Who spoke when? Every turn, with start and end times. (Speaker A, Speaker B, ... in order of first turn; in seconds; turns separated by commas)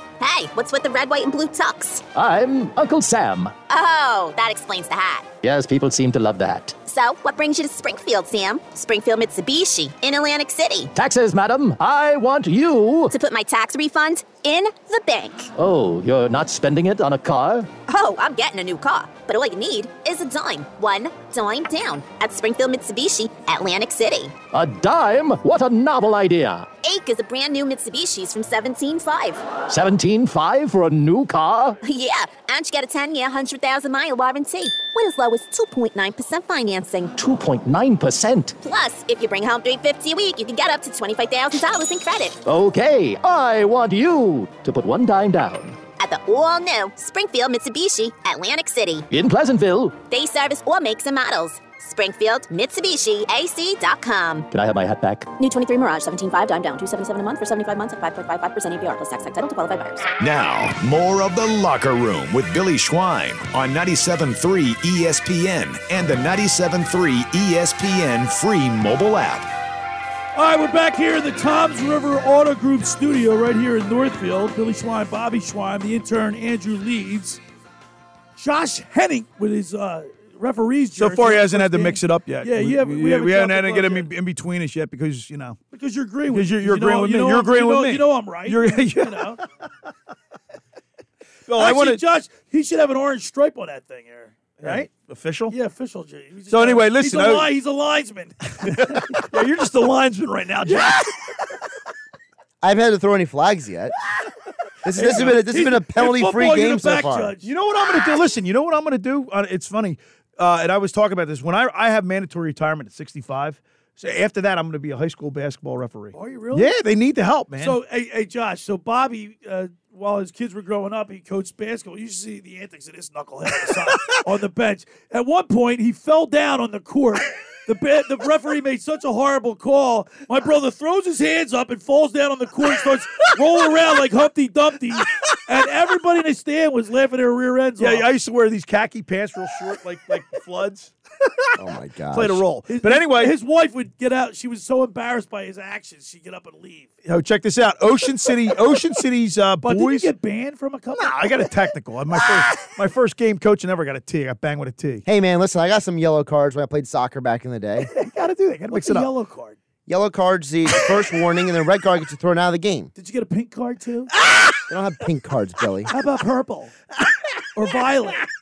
Speaker A: 0.2-2.0, Speaker B: 2.1-3.5, Speaker A: 3.7-5.3, Speaker B: 5.4-6.8, Speaker A: 6.8-10.9, Speaker B: 10.9-13.1, Speaker A: 13.1-15.5, Speaker B: 15.6-17.7, Speaker A: 17.9-24.4, Speaker B: 24.5-26.7, Speaker A: 26.8-29.5, Speaker B: 29.6-31.8, Speaker A: 31.8-37.1, Speaker B: 37.1-38.5, Speaker A: 38.6-42.4, Speaker B: 42.4-45.8, Speaker A: 46.0-49.1, Speaker B: 49.1-50.0, Speaker A: 50.0-54.5, Speaker B: 54.5-55.3, Speaker A: 55.4-60.1, Speaker C: 60.2-69.5, Speaker D: 70.3-77.4, Speaker D: 78.4-84.1, Speaker E: 81.0-85.6, Speaker D: 85.7-89.4, Speaker E: 86.3-89.3, Speaker E: 91.5-92.0, Speaker D: 91.6-94.8, Speaker E: 94.6-95.5, Speaker D: 95.5-99.1, Speaker E: 96.5-97.5, Speaker E: 98.6-101.1, Speaker F: 102.6-103.9, Speaker F: 104.8-107.3, Speaker D: 105.0-107.5, Speaker E: 107.4-117.8, Speaker D: 116.1-116.7, Speaker D: 117.6-138.1, Speaker E: 137.8-141.3, Speaker F: 141.6-142.4, Speaker E: 142.1-143.3, Speaker D: 142.7-146.9, Speaker E: 147.1-150.1, Speaker D: 149.6-151.3, Speaker E: 151.0-155.0, Speaker F: 155.0-157.9, Speaker E: 158.1-159.1, Speaker D: 158.1-159.6, Speaker F: 159.8-162.9, Speaker D: 162.9-164.1, Speaker F: 164.7-165.9, Speaker D: 165.9-166.7, Speaker D: 167.5-168.2